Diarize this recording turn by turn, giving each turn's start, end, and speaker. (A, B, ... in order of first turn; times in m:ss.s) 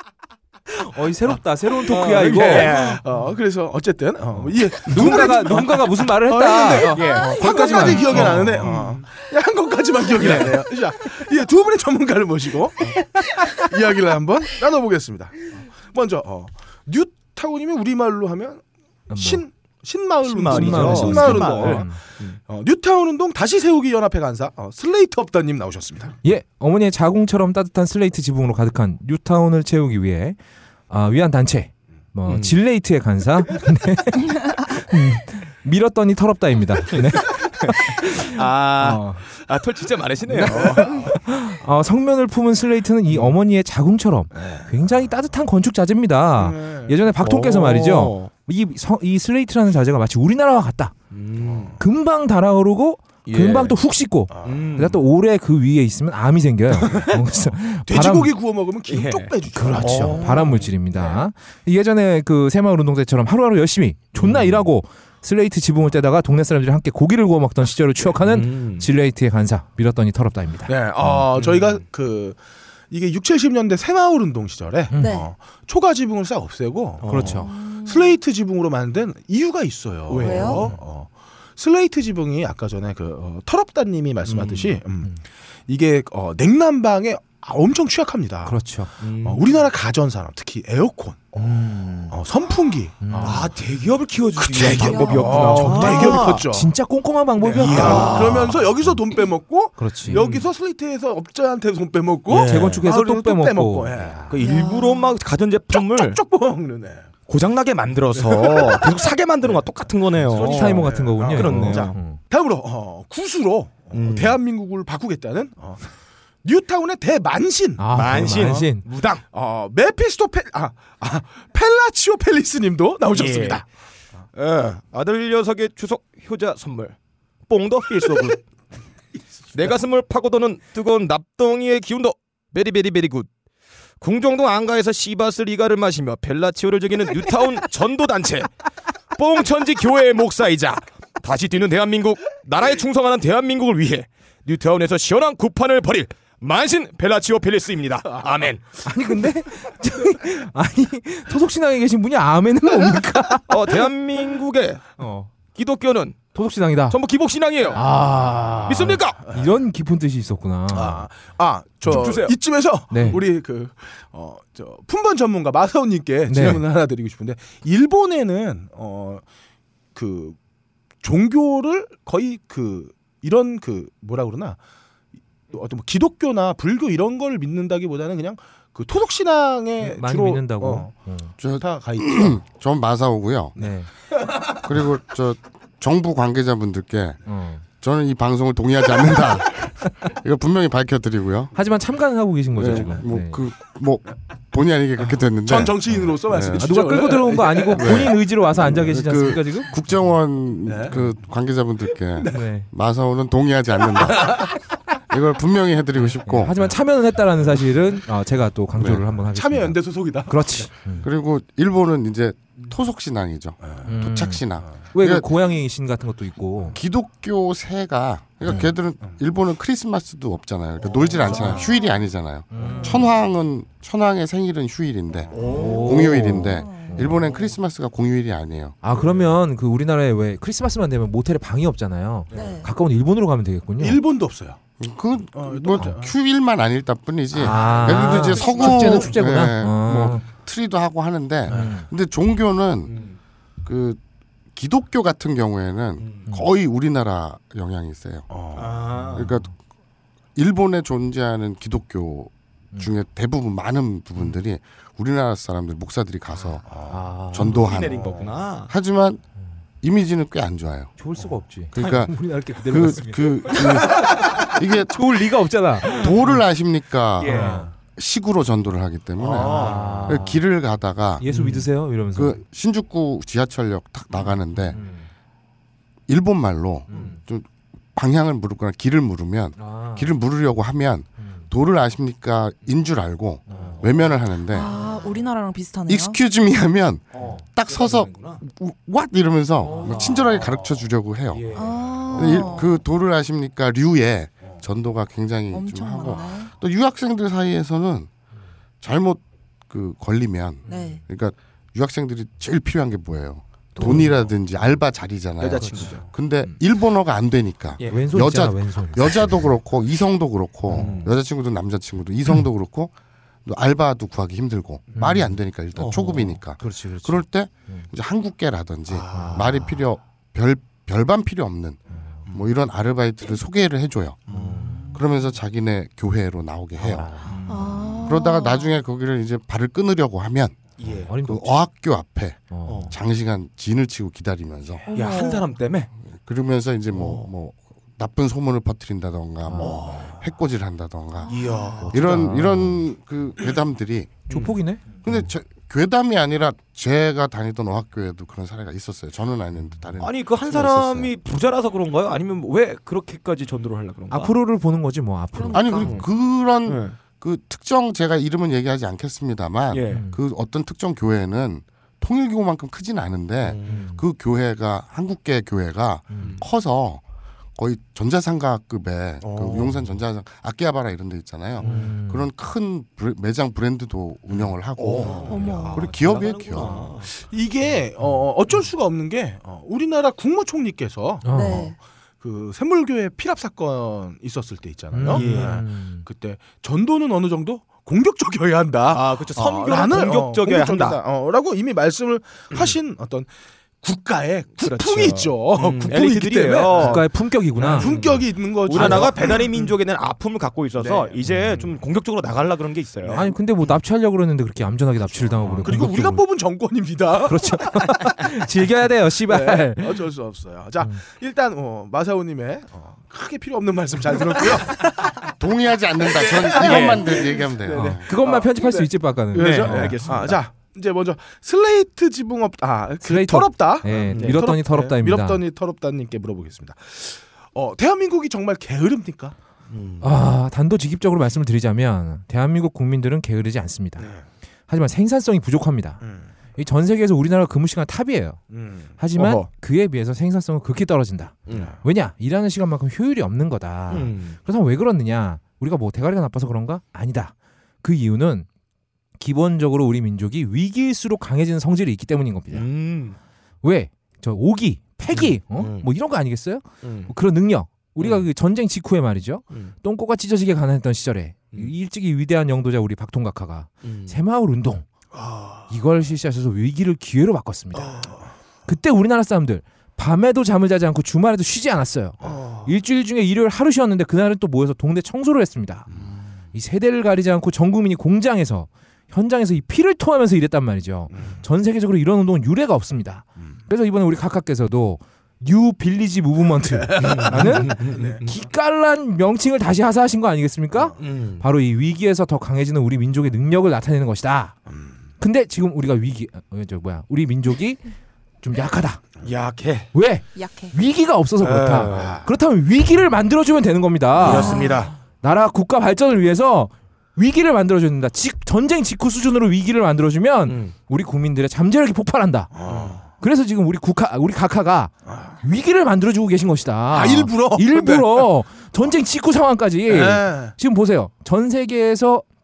0:00.8-0:02.8 A
0:01.8-0:03.0 B
0:02.2-0:22.0 C
0:04.4-0:08.8 A
0:04.9-0:05.6 B
0:06.8-0:09.0 B
0:10.2-0:10.6 B
0:19.1-0:19.4 A
0:20.3-0:22.4 B
0:20.4-0:22.0 A
0:22.5-0:26.2 C
0:26.2-0:30.4 A
0:30.9-0:39.2 A
0:32.2-0:32.6 B
0:36.9-0:41.2 B
0:40.3-0:50.9 A
0:40.5-0:41.1 C
0:44.4-0:44.7 C
0:46.3-0:47.0 C
0:47.2-0:48.3 B
0:51.1-0:51.7 B
0:51.4-0:51.8 C
0:51.8-0:58.3 A
0:53.2-0:53.8 B
0:54.3-0:54.7 C
0:54.4-0:55.0 B
0:57.8-1:00.6 C
0:58.9-1:00.7 B
0:59.5-1:11.3 A
1:04.1-1:04.6 B
1:08.1-1:08.9 B
1:10.7-1:12.4 C
1:11.4-1:11.8 B
1:12.9-1:25.1 C
1:14.9-1:15.2 A
1:15.0-1:15.3 D
1:17.0-1:17.4 B
1:17.1-1:17.5 A
1:17.4-1:18.1 D
1:20.1-1:20.8 B
1:20.2-1:20.7 D
1:24.3-1:24.7 B
1:25.7-1:28.6 C
1:28.4-1:28.9 A
1:29.0-1:29.5 B
1:29.2-1:31.4 C
1:31.4-1:32.2 A
1:32.1-1:33.5 C
1:33.0-1:33.5 A
1:33.2-1:36.4 B
1:34.4-1:36.7 C
1:34.7-1:35.8 D
1:35.4-1:39.0 A
1:37.4-1:44.3 C
1:37.5-1:38.6 B
1:39.8-1:40.2 A
1:40.1-1:40.5 B
1:42.3-1:42.8 B
1:42.4-1:44.3 A
1:44.3-1:46.2 B
1:44.4-1:45.1 D
1:45.7-1:47.1 C
1:47.3-1:52.0 B
1:48.2-1:48.9 C
1:50.2-1:55.8 C
1:50.3-1:52.2 A
1:53.9-1:54.4 B
1:56.4-1:58.6 C
1:57.8-1:58.8 A
1:57.9-1:59.2 B
1:59.3-2:03.6 C
2:03.1-2:03.6 B
2:04.4-2:07.0 B
2:07.5-2:08.4 B
2:09.5-2:13.3 B
2:14.0-2:18.5 B
2:19.1-2:28.8 B
2:28.8-2:33.9 A
2:33.5-2:35.0 B
2:35.0-2:35.3 A
2:35.5-2:36.3 B
2:36.3-2:37.0 A
2:36.9-2:37.8 B
2:37.7-2:41.0 A
2:38.6-2:39.2 B
2:39.3-2:39.5 C
2:40.7-2:49.2 C
2:41.8-2:42.4 B
2:42.9-2:43.2 A
2:46.3-2:46.6 A
2:49.9-2:50.4 C
2:51.0-2:54.6 C
2:55.5-3:00.9 C
2:59.8-3:01.4 A
3:01.4-3:03.5 E
3:01.5-3:02.4 C
3:03.6-3:03.9 A
3:04.6-3:07.2 E
3:07.2-3:07.6 A
3:07.7-3:11.5 E
3:11.5-3:13.4 A
3:12.5-3:16.7 E
3:15.4-3:18.1 C
3:16.6-3:19.7 A
3:17.7-3:24.6 E
3:20.7-3:21.0 C
3:22.2-3:22.7 A
3:25.1-3:26.6 E
3:26.2-3:31.1 A
3:28.8-3:29.0 E
3:29.3-3:30.5 C
3:31.0-3:35.3 E
3:33.8-3:36.8 A
3:36.7-3:48.8 E
3:38.4-3:38.7 A
3:41.2-3:41.6 C
3:42.5-3:43.1 A
3:45.3-3:46.1 B
3:45.4-3:47.2 A
3:46.5-3:47.0 D
3:48.8-3:54.0 A
3:52.3-3:52.7 D
3:53.8-3:54.6 C
3:54.8-4:03.0 E
3:55.4-3:56.1 C
3:57.3-4:00.2 A
3:57.6-3:59.0 B
3:58.1-3:58.3 C
4:01.5-4:01.8 A
4:01.5-4:01.8 C
4:02.9-4:03.2 B
4:03.6-4:04.0 E
4:04.5-4:08.3 E
4:08.3-4:08.8 C
4:08.5-4:09.3 B
4:09.1-4:09.5 E
4:10.4-4:19.2 E
4:16.7-4:17.0 C
4:16.8-4:17.7 A
4:17.4-4:18.7 B
4:17.8-4:18.3 C
4:19.8-4:21.0 E
4:21.0-4:26.2 A
4:21.7-4:25.0 E
4:23.6-4:24.2 B
4:25.8-4:26.1 B
4:25.8-4:31.2 E
4:27.2-4:27.6 B
4:27.3-4:27.7 A
4:29.2-4:30.1 B
4:29.3-4:29.7 C
4:29.5-4:30.4 A
4:31.2-4:32.4 A
4:31.3-4:31.6 B
4:32.1-4:34.8 E
4:34.6-4:35.1 A
4:36.1-4:44.7 E
4:36.9-4:37.2 A
4:39.6-4:40.1 A
4:43.5-4:43.9 A
4:44.5-4:46.2 D
4:45.9-4:58.1 E
4:47.1-4:48.4 B
4:49.6-4:50.6 B
4:51.3-4:52.6 B
4:51.5-4:52.7 D
4:55.5-4:56.5 D
4:58.8-5:12.9 E
5:00.7-5:01.0 D
5:03.8-5:04.1 A
5:05.4-5:06.1 B
5:05.6-5:05.9 A
5:07.8-5:08.0 B
5:07.9-5:09.5 A
5:10.7-5:11.1 B
5:13.4-5:24.3 E
5:15.0-5:15.4 A
5:15.8-5:16.4 B
5:16.6-5:17.8 A
5:18.9-5:19.7 B
5:19.1-5:19.8 A
5:24.3-5:24.7 B
5:24.3-5:25.0 A
5:24.9-5:27.2 E
5:26.8-5:28.1 A
5:27.5-5:28.6 D
5:28.0-5:30.7 E
5:30.8-5:31.1 B
5:31.0-5:31.6 A
5:31.2-5:34.8 E
5:32.5-5:33.0 A
5:32.7-5:32.9 B
5:34.9-5:35.5 D
5:34.9-5:35.9 B
5:36.2-5:44.3 E
5:36.9-5:37.3 B
5:39.4-5:40.0 A
5:39.6-5:40.2 B
5:41.3-5:42.2 B
5:41.8-5:42.8 A
5:44.3-5:44.5 B
5:44.3-5:45.2 A
5:45.0-5:51.1 E
5:50.0-5:54.3 B
5:54.1-5:56.0 A
5:55.5-6:07.0 E
5:55.6-5:56.1 B
5:56.6-5:57.0 B
5:59.7-6:00.0 B
5:59.9-6:00.2 A
6:03.4-6:03.9 B
6:03.7-6:04.0 A
6:06.1-6:06.4 A
6:07.6-6:16.9 E
6:09.2-6:09.8 B
6:11.6-6:11.9 B
6:11.6-6:12.3 A
6:14.8-6:17.1 B
6:15.3-6:15.9 D
6:17.0-6:21.6 C
6:18.0-6:18.3 A
6:21.2-6:21.7 A
6:21.3-6:21.8 D
6:22.2-6:33.3 C
6:24.9-6:26.0 A
6:25.1-6:25.6 B
6:28.9-6:31.0 B
6:33.8-6:39.7 C
6:34.6-6:37.0 B
6:36.7-6:38.1 A
6:37.6-6:43.3 B
6:38.7-6:39.1 A
6:40.8-6:41.2 C
6:41.2-6:41.7 A
6:43.1-6:43.3 C
6:43.1-6:46.2 A
6:45.4-6:47.8 C
6:47.2-6:50.0 A
6:49.3-6:55.1 C
6:55.4-6:58.1 E
6:56.1-7:09.3 C
6:56.5-6:57.2 B
6:57.7-7:00.3 A
6:59.3-7:00.4 B
7:03.0-7:05.4 A
7:04.1-7:04.4 B
7:09.7-7:10.1 B
7:10.0-7:14.1 A
7:14.7-7:16.0 A
7:16.0-7:16.3 C
7:16.6-7:18.4 A
7:18.5-7:18.9 C
7:19.0-7:28.4 A
7:19.2-7:19.5 B
7:21.5-7:21.8 C
7:23.9-7:24.4 B
7:29.2-7:32.7 A
7:32.5-7:33.2 B
7:33.6-7:44.8 A
7:35.1-7:35.8 B
7:36.8-7:37.1 B
7:38.0-7:38.2 B
7:43.8-7:44.1 B
7:45.7-7:48.0 A
7:48.7-7:55.9 A
7:56.5-8:14.6 A
8:06.6-8:08.2 C
8:07.0-8:08.3 B
8:11.0-8:11.4 B
8:15.2-8:17.8 A
8:18.4-8:19.0 A
8:19.2-8:19.9 B
8:19.9-8:32.5 A
8:20.4-8:20.7 D
8:21.4-8:22.2 B
8:21.9-8:22.3 C
8:24.2-8:24.9 B
8:24.2-8:24.8 D
8:30.5-8:30.7 B
8:32.5-8:33.1 C
8:32.6-8:33.0 B
8:33.1-8:34.9 A
8:35.1-8:35.4 C
8:35.4-8:42.2 A
8:36.9-8:38.3 C
8:39.8-8:40.6 C